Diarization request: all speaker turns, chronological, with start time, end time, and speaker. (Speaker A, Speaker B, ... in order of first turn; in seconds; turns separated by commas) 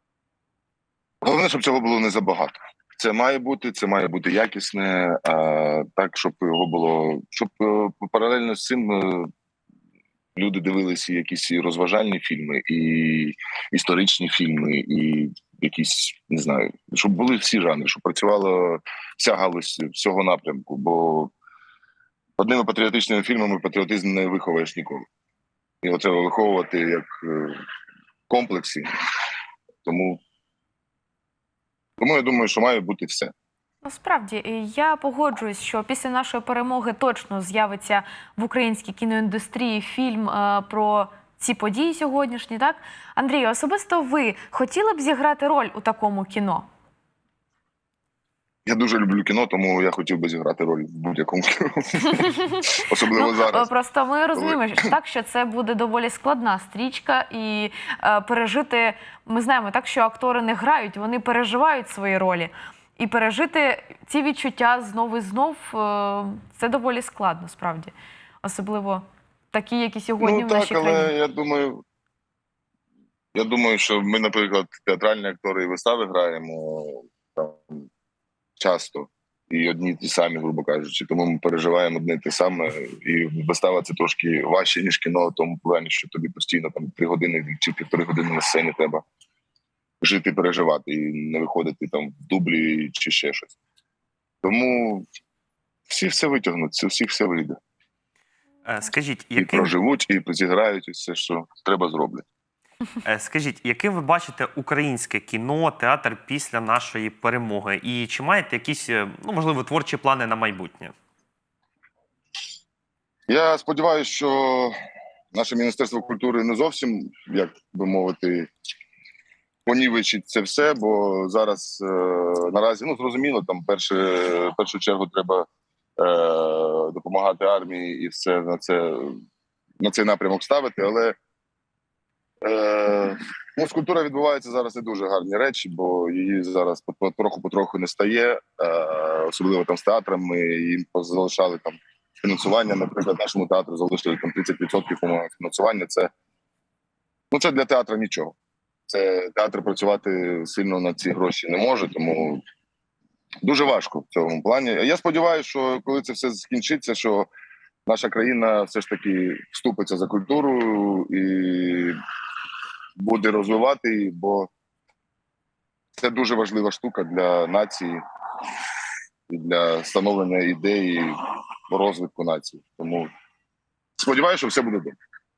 Speaker A: 1.2-9.3, Speaker A: 10.3-21.3, Speaker A: 22.4-25.0, Speaker A: 25.8-27.6, Speaker A: 28.3-28.9, Speaker A: 29.8-30.2, Speaker A: 32.0-33.3, Speaker B: 33.8-46.6, Speaker A: 48.6-53.7, Speaker B: 52.1-71.1, Speaker A: 54.3-54.6, Speaker A: 70.2-71.8, Speaker A: 73.3-77.9, Speaker A: 78.6-89.0, Speaker A: 90.0-93.5, Speaker A: 94.4-95.0, Speaker A: 95.9-97.6, Speaker C: 98.6-99.7, Speaker A: 99.4-102.2, Speaker C: 103.0-110.9, Speaker A: 113.3-114.7, Speaker A: 115.3-118.5, Speaker A: 119.7-125.5, Speaker A: 126.0-129.2, Speaker A: 129.8-131.1, Speaker A: 132.4-146.1, Speaker A: 147.3-148.3, Speaker A: 148.9-152.4, Speaker A: 153.4-157.3, Speaker A: 157.8-161.9, Speaker A: 163.0-164.5, Speaker A: 166.0-168.0, Speaker A: 169.3-171.2, Speaker A: 171.7-173.1, Speaker A: 174.0-174.9